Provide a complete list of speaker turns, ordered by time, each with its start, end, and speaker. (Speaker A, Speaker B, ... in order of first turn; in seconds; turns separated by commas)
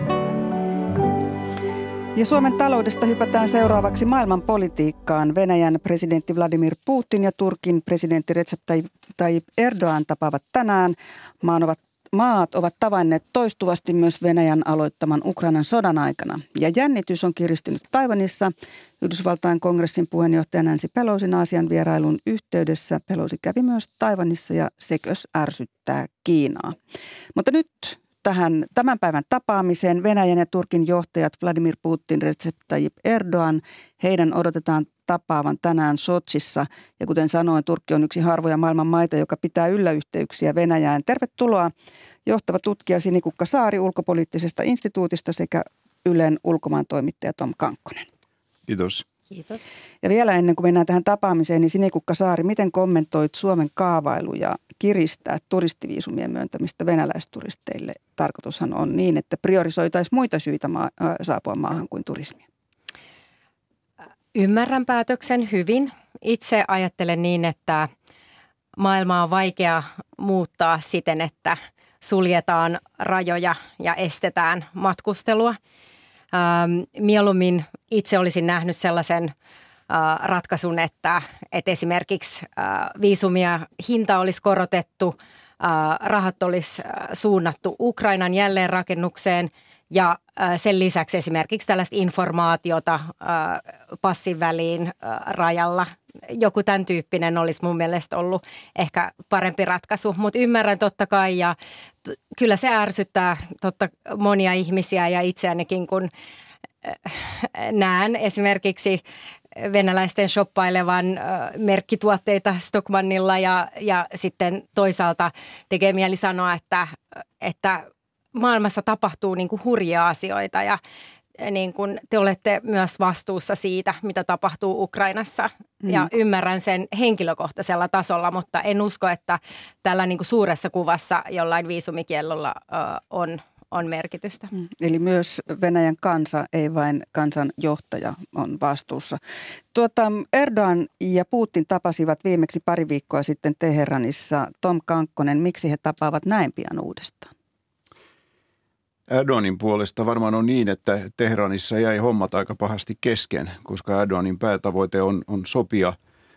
Speaker A: 2.1-26.8, Speaker A: 27.3-41.7, Speaker A: 42.2-48.1, Speaker B: 48.7-49.0, Speaker C: 49.3-49.7, Speaker A: 50.0-62.4, Speaker C: 64.3-67.9, Speaker C: 68.8-75.6, Speaker C: 76.3-79.3, Speaker C: 79.9-106.1, Speaker C: 106.8-109.0, Speaker C: 109.6-120.8, Speaker C: 121.4-134.5, Speaker A: 134.5-139.2, Speaker A: 139.7-147.3, Speaker B: 149.1-155.9